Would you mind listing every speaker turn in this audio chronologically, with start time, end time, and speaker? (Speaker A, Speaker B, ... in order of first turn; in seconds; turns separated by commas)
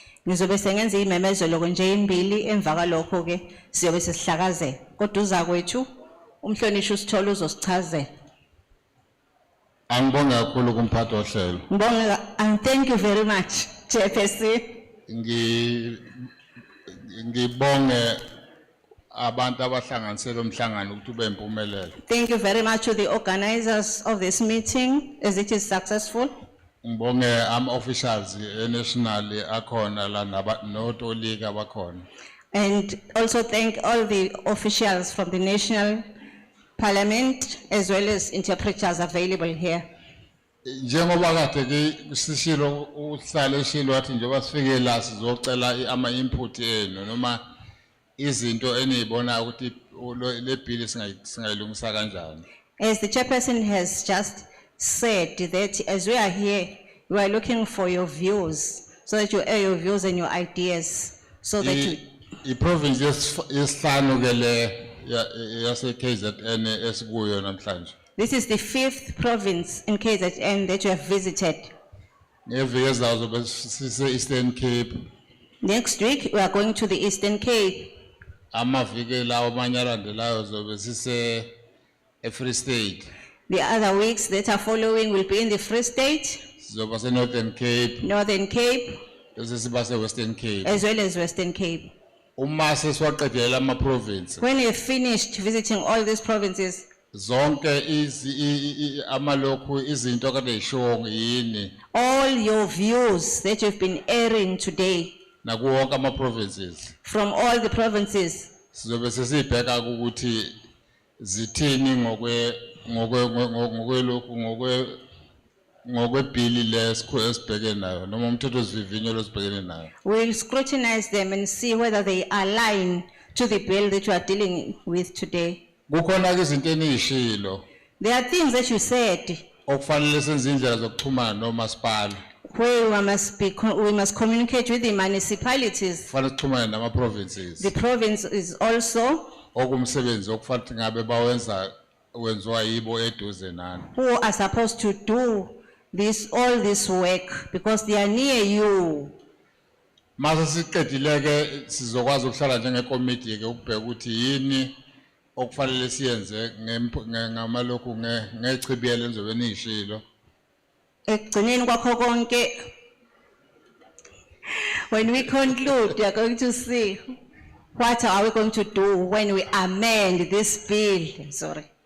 Speaker A: 0.3-5.9, Speaker A: 6.4-8.1, Speaker B: 9.9-11.7, Speaker A: 11.7-14.8, Speaker B: 15.1-16.1, Speaker B: 17.0-18.2, Speaker B: 19.1-21.9, Speaker A: 22.1-26.4, Speaker B: 26.8-32.0, Speaker A: 32.5-36.0, Speaker A: 36.8-39.9, Speaker B: 40.6-47.4, Speaker B: 48.2-52.5, Speaker A: 52.8-62.0, Speaker B: 61.6-67.9, Speaker A: 68.2-71.7, Speaker B: 72.5-74.9, Speaker A: 75.6-77.9, Speaker B: 78.5-81.5, Speaker B: 82.2-83.1, Speaker A: 83.5-86.4, Speaker B: 86.6-88.1, Speaker A: 88.0-89.0, Speaker B: 89.4-90.8, Speaker A: 90.6-91.9, Speaker B: 92.4-94.4, Speaker A: 94.4-96.9, Speaker B: 97.1-101.8, Speaker A: 101.9-105.2, Speaker B: 105.4-106.9, Speaker A: 107.0-108.5, Speaker B: 108.7-110.5, Speaker B: 111.2-115.0, Speaker B: 115.8-119.9, Speaker A: 120.0-125.6, Speaker B: 125.9-127.6, Speaker A: 128.0-129.5, Speaker B: 129.7-132.2, Speaker A: 132.5-136.1, Speaker B: 136.1-137.7, Speaker A: 137.6-139.4, Speaker B: 139.5-143.9, Speaker A: 143.9-149.1, Speaker B: 150.2-154.7, Speaker B: 155.4-160.0, Speaker A: 161.1-162.6, Speaker A: 164.9-167.1, Speaker A: 167.8-171.7